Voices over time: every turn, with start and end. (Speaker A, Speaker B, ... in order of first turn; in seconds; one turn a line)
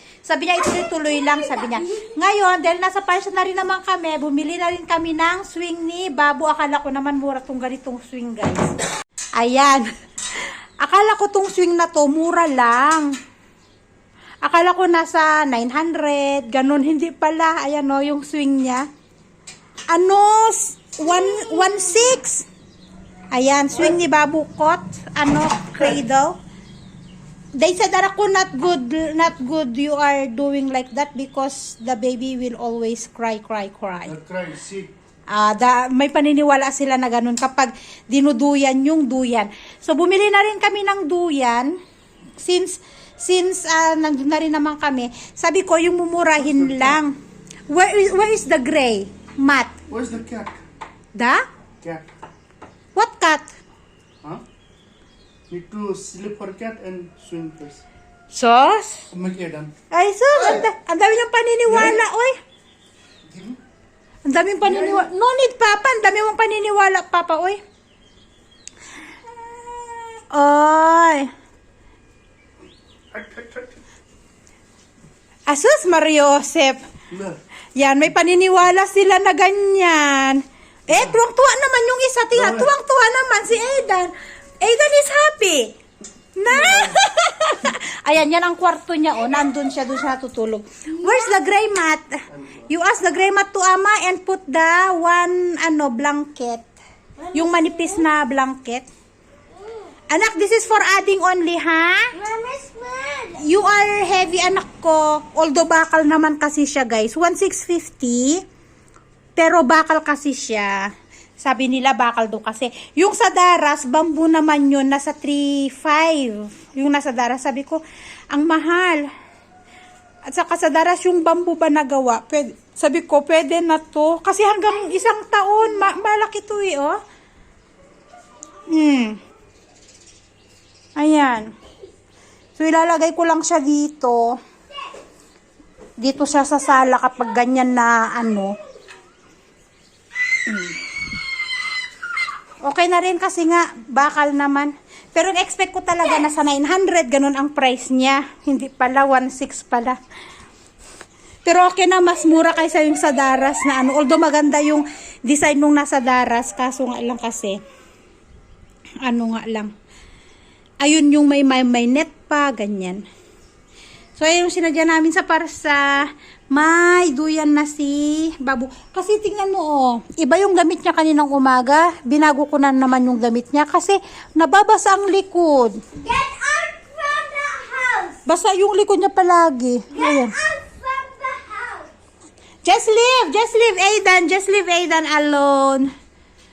Speaker A: 0.2-8.8
Speaker B: 1.3-2.1
Speaker A: 9.4-13.1
Speaker A: 14.4-18.9
Speaker A: 19.9-22.5
Speaker B: 21.3-21.7
Speaker A: 23.3-26.4
Speaker A: 27.6-34.2
Speaker C: 34.1-34.9
Speaker A: 35.3-41.8
Speaker A: 42.4-47.1
Speaker C: 46.5-46.9
Speaker A: 47.7-49.8
Speaker C: 49.9-50.6
Speaker A: 51.1-51.5
Speaker C: 51.8-52.1
Speaker A: 53.0-53.5
Speaker C: 55.5-57.8
Speaker A: 58.3-59.1
Speaker C: 59.1-59.7
Speaker A: 59.9-62.4
Speaker C: 61.7-62.0
Speaker C: 63.3-63.6
Speaker A: 64.3-67.6
Speaker A: 69.3-71.3
Speaker C: 73.1-73.8
Speaker A: 75.5-76.8
Speaker C: 77.1-77.4
Speaker A: 77.8-85.8
Speaker C: 82.4-82.7
Speaker A: 86.4-96.7
Speaker B: 97.3-97.8
Speaker A: 97.3-98.9
Speaker B: 99.6-99.9
Speaker A: 100.1-102.1
Speaker B: 102.1-103.4
Speaker A: 103.3-108.4
Speaker A: 109.4-117.8
Speaker A: 118.3-119.1
Speaker A: 120.3-127.0
Speaker A: 128.7-129.2
Speaker A: 131.0-131.5
Speaker A: 132.6-134.4
Speaker A: 136.0-138.6
Speaker A: 140.4-140.8
Speaker A: 142.6-150.0
Speaker A: 151.4-157.6
Speaker A: 159.0-159.7
Speaker A: 160.8-163.0
Speaker A: 164.2-175.8
Speaker B: 176.0-178.2
Speaker A: 178.2-180.4
Speaker B: 179.9-181.9
Speaker A: 182.6-185.9